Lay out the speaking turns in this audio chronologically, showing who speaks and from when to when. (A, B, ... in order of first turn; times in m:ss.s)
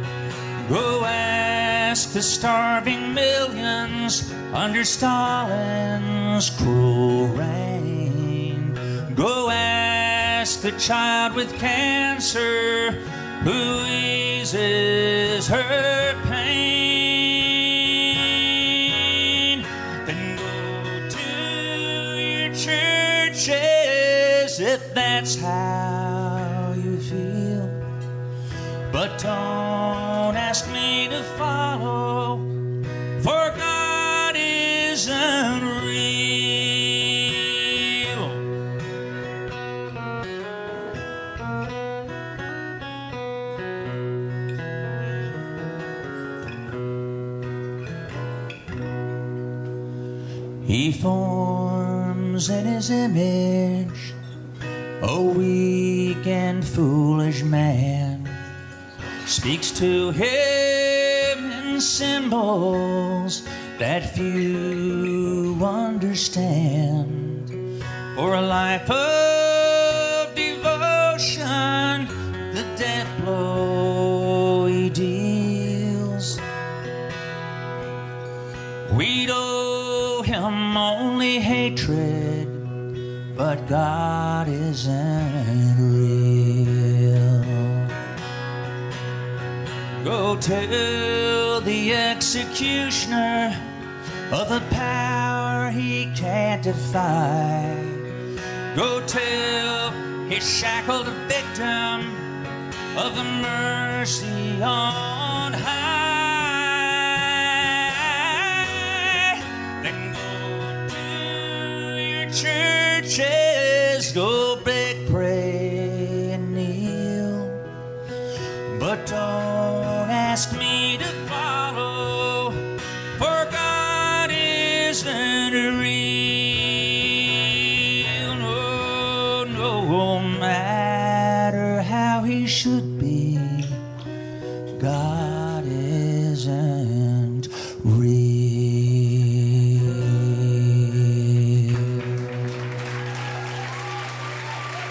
0:00.6-0:27.8 A
0:28.9-0:32.5 A
0:33.2-0:38.4 A
0:50.6-0:54.1 A
0:55.0-0:58.4 A
0:59.2-1:07.5 A
1:08.1-1:16.4 A
1:18.9-1:22.7 A
1:23.3-1:27.9 A
1:30.0-1:33.6 A
1:34.3-1:38.1 A
1:38.7-1:42.4 A
1:42.9-1:57.6 A
1:58.7-2:13.8 A
2:14.8-2:22.0 A